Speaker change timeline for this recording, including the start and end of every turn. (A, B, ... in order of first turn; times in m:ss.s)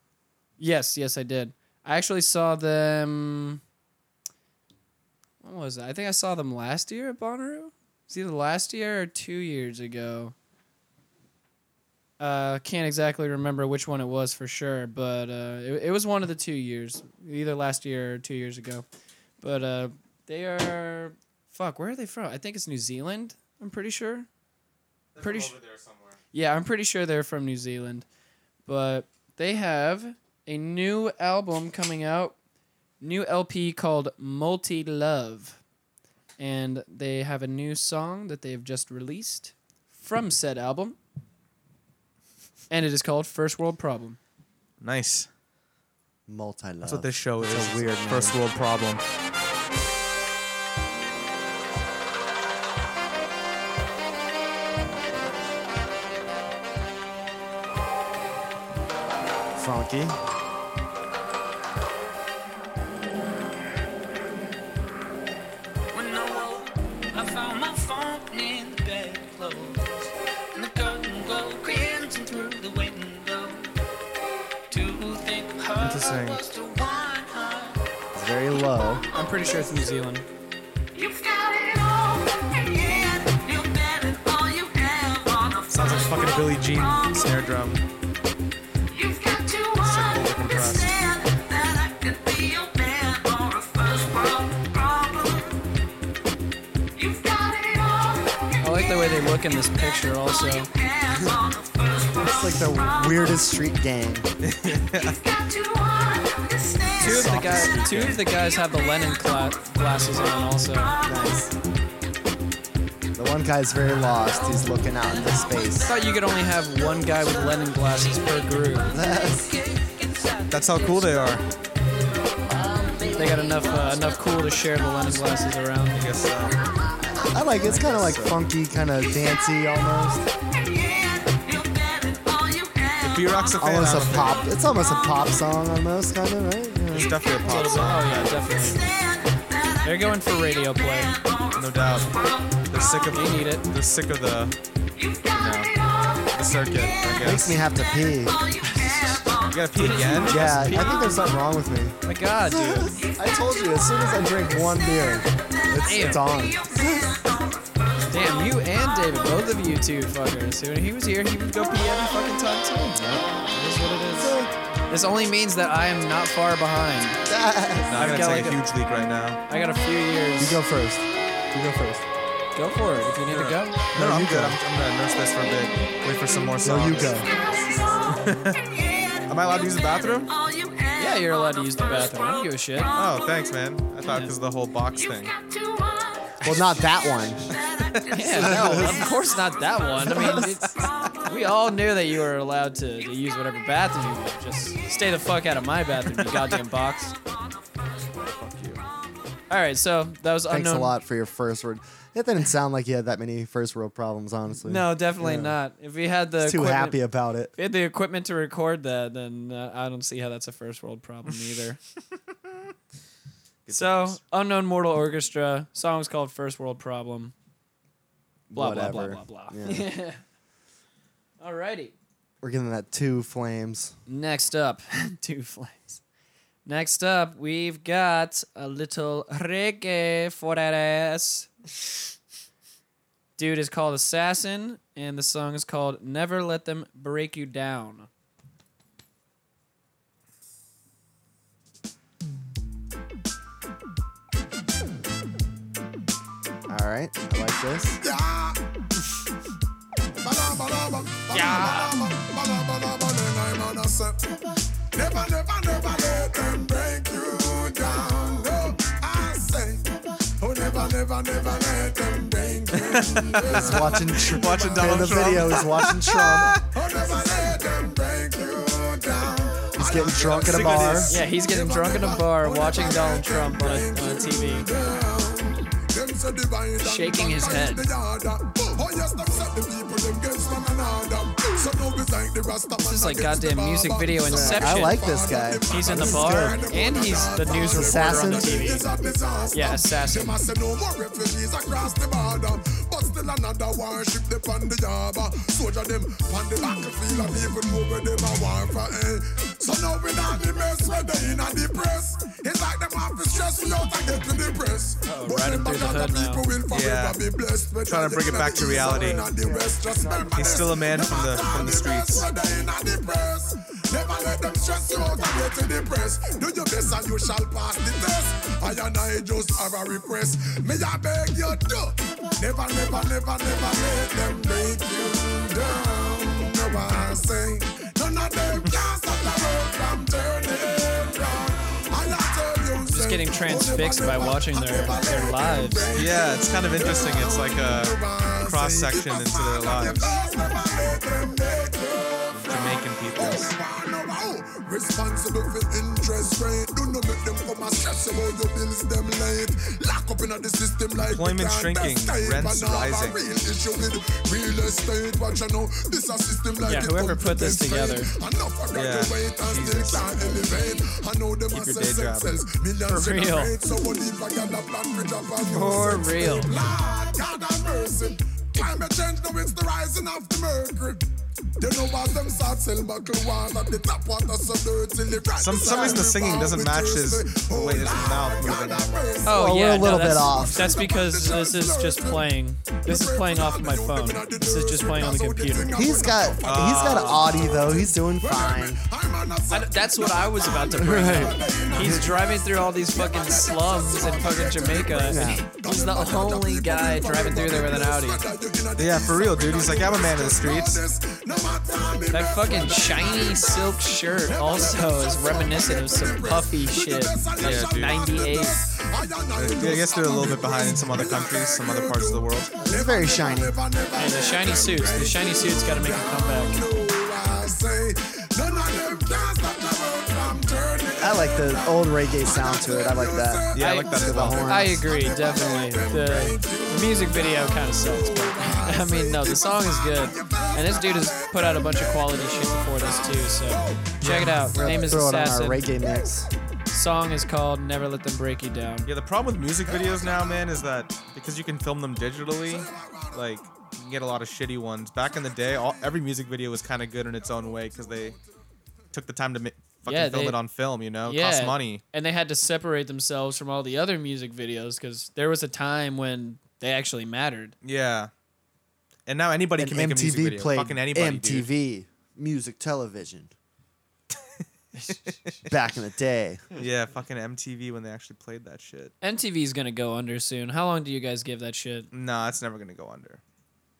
0:00.6-0:03.6 A
0:05.4-0:10.3 A
0:12.2-0:18.8 A
0:19.4-0:24.3 A
0:25.2-0:26.2 B
0:25.2-0:25.6 A
0:26.3-0:28.1 A
0:28.7-0:32.4 A
0:33.0-0:35.6 A
0:36.4-0:41.0 A
0:42.7-0:44.2 A
0:44.8-0:45.3 B
0:46.3-0:48.4 C
0:46.8-0:49.0 B
0:59.6-1:00.2 C
1:05.9-1:13.7 D
1:14.7-1:17.8 D
1:15.8-1:16.4 B
1:18.1-1:19.0 C
1:19.1-1:20.2 A
1:19.4-1:19.7 D
1:20.9-1:27.4 D
1:25.7-1:27.8 B
1:28.9-1:35.6 D
1:29.8-1:31.0 B
1:37.0-1:43.4 D
1:38.6-1:40.7 A
1:42.3-1:44.3 C
1:44.4-1:45.2 B
1:45.0-1:51.5 D
1:47.0-1:50.9 A
1:47.0-1:48.2 B
1:51.0-1:51.5 C
1:53.2-1:55.9 C
1:54.2-2:01.4 D
1:55.9-1:58.9 A
1:58.9-1:59.5 C
2:00.5-2:01.4 B
2:02.3-2:05.5 D
2:03.2-2:06.0 A
2:05.9-2:06.6 B
2:07.3-2:10.3 C
2:07.6-2:08.4 B
2:10.6-2:13.9 D
2:13.0-2:14.5 B
2:13.6-2:17.1 C
2:14.8-2:15.1 D
2:16.9-2:18.6 B
2:17.4-2:18.9 A
2:18.6-2:23.0 D
2:19.8-2:21.1 A
2:21.5-2:22.1 B
2:22.7-2:24.6 B
2:23.1-2:23.7 A
2:25.0-2:30.1 D
2:25.3-2:25.7 B
2:26.3-2:27.6 B
2:27.2-2:28.4 C
2:28.6-2:31.2 A
2:29.5-2:30.7 B
2:30.3-2:37.2 C
2:32.0-2:33.0 A
2:33.0-2:33.9 D
2:34.4-2:39.2 D
2:35.8-2:36.3 A
2:38.1-2:44.4 A
2:42.9-2:43.3 C
2:44.2-2:44.5 C
2:44.9-2:47.2 A
2:47.3-2:48.0 C
2:47.9-2:49.4 B
2:47.9-2:48.6 A
2:49.5-2:50.6 A
2:50.4-2:52.0 C
2:52.6-2:53.8 A
2:53.3-2:57.3 B
2:53.9-2:54.6 C
2:56.6-2:57.3 C
2:57.1-3:03.4 D
2:58.1-2:58.6 B
2:59.3-3:00.3 B
3:01.0-3:02.9 A
3:02.9-3:05.3 B
3:04.1-3:04.3 A
3:04.9-3:06.4 D
3:06.4-3:07.5 C
3:07.5-3:11.1 D
3:08.1-3:10.7 A
3:08.4-3:09.0 C
3:10.1-3:10.6 C
3:11.2-3:17.1 A
3:17.7-3:18.1 D
3:18.2-3:18.8 B
3:19.5-3:21.0 A
3:20.5-3:25.6 C
3:24.6-3:27.0 A
3:26.4-3:27.5 C
3:27.6-3:31.8 A
3:33.7-3:34.2 B
3:33.7-3:37.3 A
3:38.5-3:39.9 C
3:38.5-3:40.2 A
3:41.4-3:41.9 A
3:42.4-3:43.9 C
3:44.1-3:46.0 A
3:46.6-3:51.5 A
3:53.4-3:58.1 A
4:06.7-4:08.0 C
4:08.0-4:08.6 E
4:10.2-4:14.3 E
4:11.3-4:12.0 A
4:14.9-4:24.2 E
4:22.9-4:26.6 B
4:23.5-4:26.6 C
4:26.7-6:11.1 E
4:29.8-4:31.2 C
4:30.4-4:31.1 B
4:31.1-4:34.7 A
4:36.8-4:37.9 A
4:42.8-4:45.0 A
4:44.3-4:46.6 C
4:45.7-4:48.9 A
4:47.4-4:48.8 C
4:49.5-4:50.4 A
5:05.0-5:06.4 A
5:06.7-5:07.2 B
5:07.9-5:09.3 B
5:08.6-5:10.8 C
5:10.3-5:12.3 B
5:32.9-5:35.9 A
5:36.0-5:40.1 B
5:42.3-5:43.6 B
5:51.1-5:53.2 B
5:56.6-5:58.1 A
5:58.7-6:00.1 B
6:01.5-6:02.3 B
6:02.9-6:03.5 A
6:05.5-6:06.5 A
6:11.6-7:14.8 E
6:15.4-6:19.1 B
6:15.6-6:16.0 C
6:19.2-6:25.7 A
6:19.3-6:20.8 C
6:25.7-6:28.8 C
6:26.4-6:27.7 B
6:29.5-6:38.2 A
6:30.8-6:32.2 C
6:35.1-6:35.4 C
6:38.8-6:40.8 B
6:42.1-6:48.6 A
6:47.4-6:48.0 B
6:49.4-6:52.6 B
6:52.6-6:53.6 C
6:54.0-6:56.6 A
7:01.0-7:04.8 C
7:03.5-7:04.7 B
7:03.6-7:15.7 A
7:14.0-7:14.5 B
7:14.6-7:16.3 C
7:16.7-7:18.9 A
7:18.9-7:28.2 B
7:19.7-7:20.6 E
7:22.4-7:23.5 E
7:25.2-7:26.0 E
7:27.2-7:28.4 E
7:28.9-7:31.8 B
7:29.9-7:30.4 A
7:31.0-7:37.6 A
7:37.6-7:38.1 B
7:39.1-7:41.5 B
7:39.6-7:43.3 C
7:44.9-7:45.3 B
7:45.5-7:46.4 C
7:46.6-7:48.9 B
7:49.0-7:51.9 A
7:51.9-7:53.2 B